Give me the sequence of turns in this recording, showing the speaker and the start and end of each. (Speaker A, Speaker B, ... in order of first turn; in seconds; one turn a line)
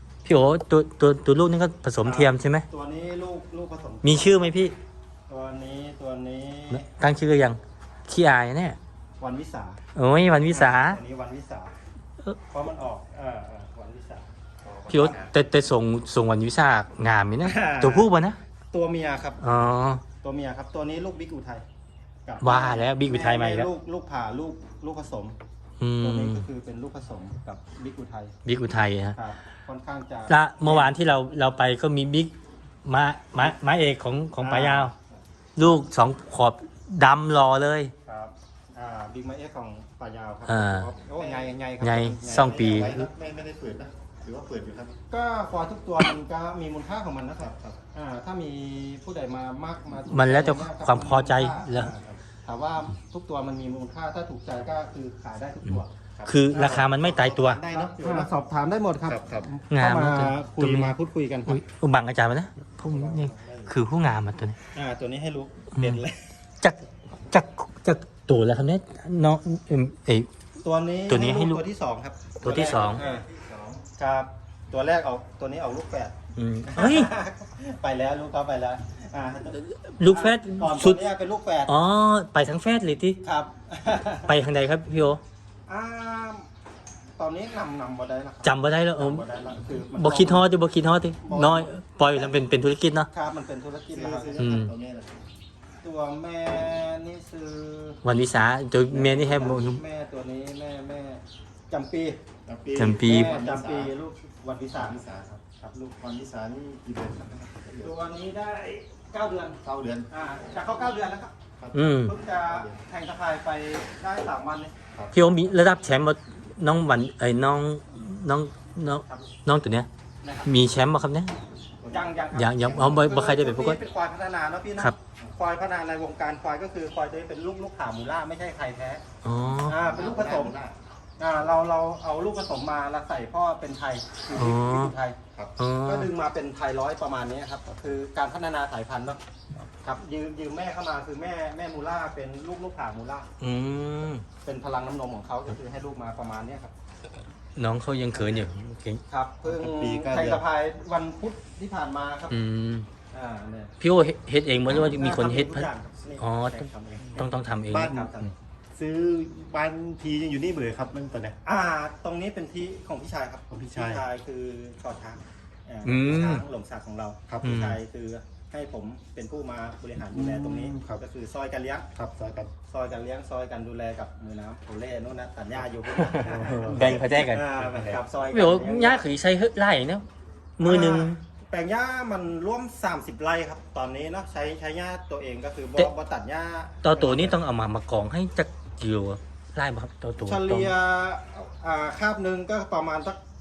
Speaker A: 0.2-2.6
Speaker B: 2.0-4.5
Speaker A: 4.0-4.7
Speaker B: 5.3-6.8
Speaker A: 6.7-8.8
Speaker B: 9.2-9.8
Speaker A: 9.9-11.0
Speaker B: 10.4-11.7
Speaker B: 12.5-14.2
Speaker C: 14.6-15.3
Speaker A: 14.9-18.4
Speaker B: 17.4-18.1
Speaker B: 18.7-19.7
Speaker A: 19.4-20.0
Speaker B: 20.2-21.6
Speaker B: 22.2-25.4
Speaker A: 22.4-23.7
Speaker A: 25.8-26.4
Speaker B: 26.0-28.3
Speaker A: 28.4-29.2
Speaker B: 29.1-30.9
Speaker A: 30.3-32.3
Speaker A: 32.8-34.9
Speaker B: 34.4-35.8
Speaker A: 35.5-37.9
Speaker B: 38.0-43.0
Speaker A: 40.5-40.9
Speaker C: 41.1-41.5
Speaker A: 41.8-43.1
Speaker C: 42.3-45.0
Speaker B: 45.1-55.9
Speaker C: 47.4-47.8
Speaker A: 50.1-51.9
Speaker A: 55.7-57.6
Speaker C: 56.2-58.3
Speaker B: 56.5-56.8
Speaker B: 57.7-61.6
Speaker C: 59.0-59.5
Speaker A: 59.7-60.9
Speaker A: 61.5-64.6
Speaker C: 62.8-63.7
Speaker B: 64.7-66.3
Speaker A: 65.8-66.0
Speaker A: 66.6-70.3
Speaker B: 70.6-73.2
Speaker A: 71.1-71.6
Speaker A: 72.4-73.0
Speaker C: 72.4-73.8
Speaker B: 73.9-76.1
Speaker A: 76.3-77.1
Speaker B: 76.7-81.7
Speaker A: 79.6-81.0
Speaker A: 81.7-83.2
Speaker B: 83.2-84.3
Speaker A: 84.2-85.2
Speaker B: 85.7-86.5
Speaker B: 87.2-90.5
Speaker A: 88.4-89.2
Speaker A: 89.7-93.1
Speaker B: 91.2-92.4
Speaker B: 93.1-94.5
Speaker C: 93.9-95.2
Speaker A: 94.4-94.7
Speaker B: 95.8-98.0
Speaker A: 98.0-99.8
Speaker B: 98.9-102.2
Speaker C: 102.4-103.9
Speaker A: 102.8-103.3
Speaker B: 103.0-106.0
Speaker C: 104.7-105.4
Speaker C: 106.0-107.9
Speaker B: 107.8-111.3
Speaker C: 109.6-110.1
Speaker C: 111.6-112.8
Speaker A: 111.7-112.1
Speaker B: 112.0-114.7
Speaker A: 115.1-119.9
Speaker B: 120.2-120.5
Speaker A: 120.4-121.3
Speaker B: 121.9-129.0
Speaker A: 122.3-123.8
Speaker A: 129.2-129.8
Speaker B: 129.7-130.6
Speaker C: 129.8-130.7
Speaker B: 131.2-135.2
Speaker A: 134.3-134.9
Speaker A: 135.6-136.1
Speaker B: 135.8-139.2
Speaker C: 137.7-137.9
Speaker B: 139.8-143.3
Speaker A: 143.4-144.2
Speaker B: 144.4-146.7
Speaker A: 147.6-149.0
Speaker B: 148.1-148.4
Speaker B: 149.1-152.4
Speaker C: 149.4-150.4
Speaker A: 152.3-152.9
Speaker B: 153.1-153.7
Speaker A: 153.8-155.7
Speaker B: 154.7-158.3
Speaker A: 156.2-158.0
Speaker C: 157.7-158.1
Speaker C: 158.7-161.4
Speaker B: 161.4-171.9
Speaker C: 163.5-164.0
Speaker A: 165.8-166.4
Speaker C: 167.3-167.6
Speaker A: 167.4-167.8
Speaker C: 170.1-171.0
Speaker C: 171.9-172.5
Speaker B: 172.7-179.1
Speaker A: 175.9-180.0
Speaker C: 176.2-177.0
Speaker A: 180.6-181.2
Speaker B: 180.6-187.4
Speaker A: 186.8-190.7
Speaker B: 190.2-193.2